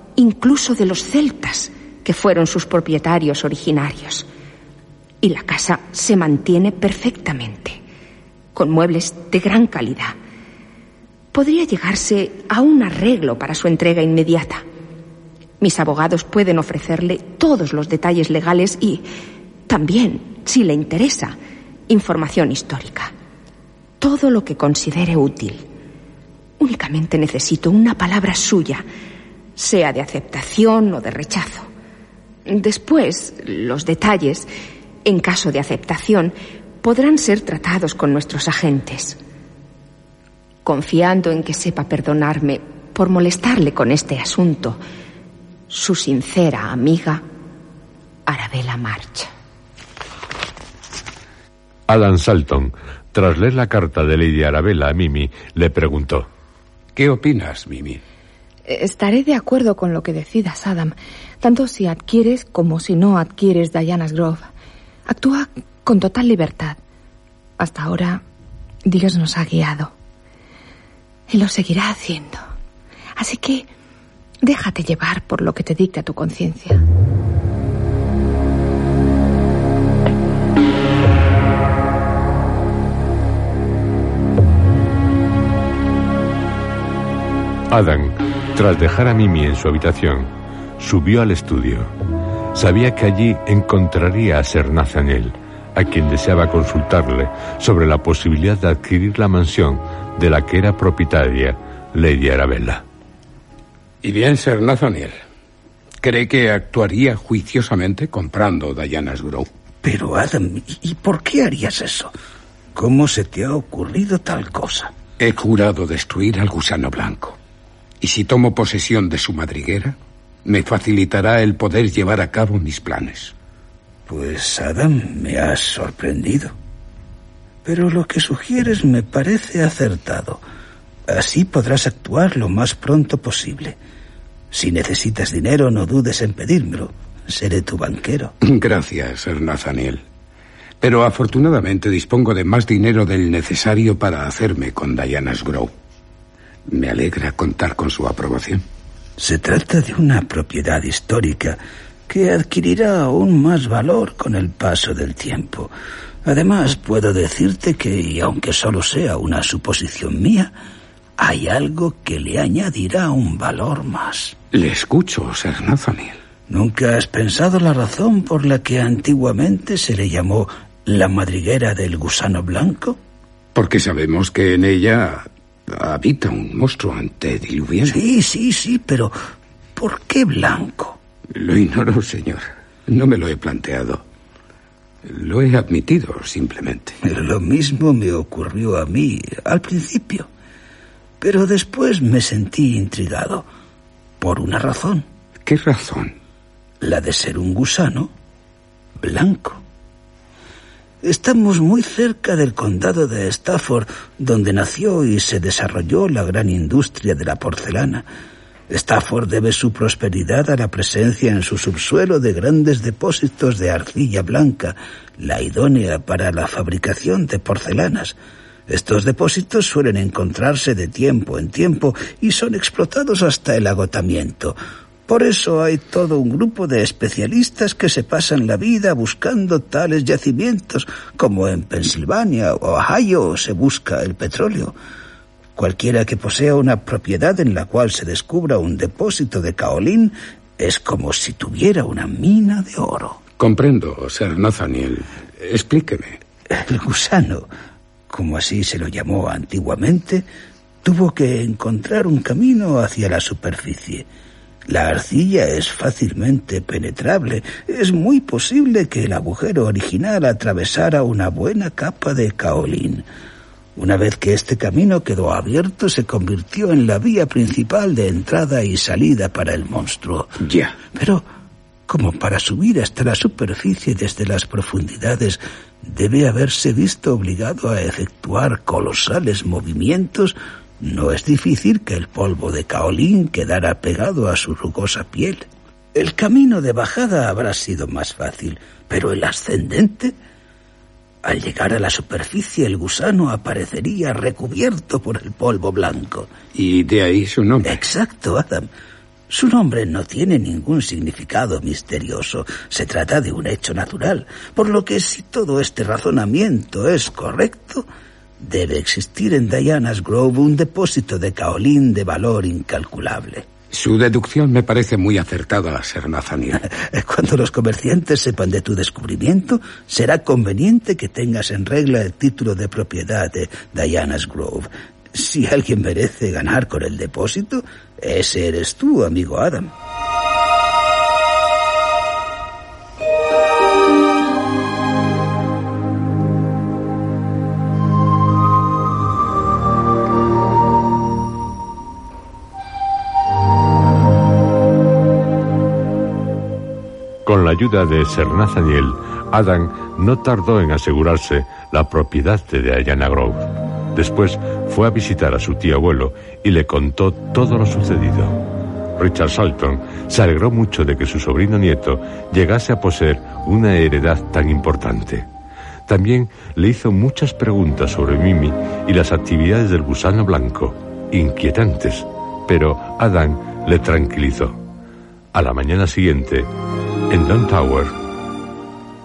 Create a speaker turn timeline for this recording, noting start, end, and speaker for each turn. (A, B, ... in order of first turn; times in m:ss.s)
0:00.2-0:04.3 A
0:05.2-0:07.8 A
0:08.5-0:10.2 A
0:11.3-0:14.6 A
0:15.6-0:19.0 A
0:19.7-0:21.3 A
0:21.9-0:23.1 A
0:24.0-0:25.6 A
0:26.6-0:28.8 A
0:29.6-0:31.7 A
0:32.5-0:34.5 A
0:35.0-0:39.2 A
0:40.6-0:44.8 A
0:45.7-0:47.2 A
0:48.3-0:49.3 A
0:51.9-0:56.3 B
0:56.9-0:58.0 C
0:58.6-1:04.5 D
1:05.1-1:06.8 D
1:07.6-1:08.2 D
1:08.9-1:09.9 D
1:11.3-1:12.4 D
1:13.2-1:13.7 D
1:14.4-1:16.8 D
1:27.7-1:31.9 B
1:32.5-1:42.8 B
1:44.0-1:45.2 C
1:46.0-1:49.5 C
1:49.8-1:52.1 E
1:52.7-1:54.9 E
1:55.2-1:57.4 C
1:58.0-2:03.3 C
2:04.1-2:06.5 E
2:07.6-2:10.4 E
2:11.1-2:13.8 E
2:14.5-2:18.3 E
2:18.4-2:20.0 C
2:20.8-2:25.7 C
2:26.7-2:28.6 C
2:29.2-2:35.7 E
2:36.2-2:40.5 E
2:41.2-2:44.4 E
2:44.5-2:46.2 C
2:46.5-2:53.0 E
2:53.5-2:58.0 C
2:57.8-2:59.1 E
2:59.8-3:01.0 E
3:01.3-3:04.0 C
3:05.0-3:07.0 C
3:07.0-3:10.3 E
3:11.2-3:13.4 E
3:14.2-3:15.0 E
3:15.4-3:16.1 C
3:16.8-3:18.1 E
3:19.0-3:19.6 E
3:21.0-3:28.0 E
3:28.7-3:38.2 E
3:38.7-3:44.6 E
3:45.1-3:54.8 E
3:55.6-4:03.2 E
4:03.4-4:06.2 C
4:06.5-4:07.5 E
4:08.1-4:10.2 E
4:10.8-4:14.1 E
4:14.7-4:23.0 E
4:23.8-4:30.3 E
4:30.4-4:30.7 C
4:30.9-4:31.2 E
4:31.9-4:50.1 E
4:51.2-4:56.3 E
4:56.5-4:57.8 C
4:57.6-4:58.7 E
4:59.3-5:07.9 E
5:08.4-5:13.5 E
5:13.7-5:16.6 C
5:16.6-5:29.7 E
5:47.2-5:58.4 B
5:59.0-6:05.3 B
6:05.9-6:14.6 B
6:15.3-6:16.5 B
6:17.1-6:17.9 B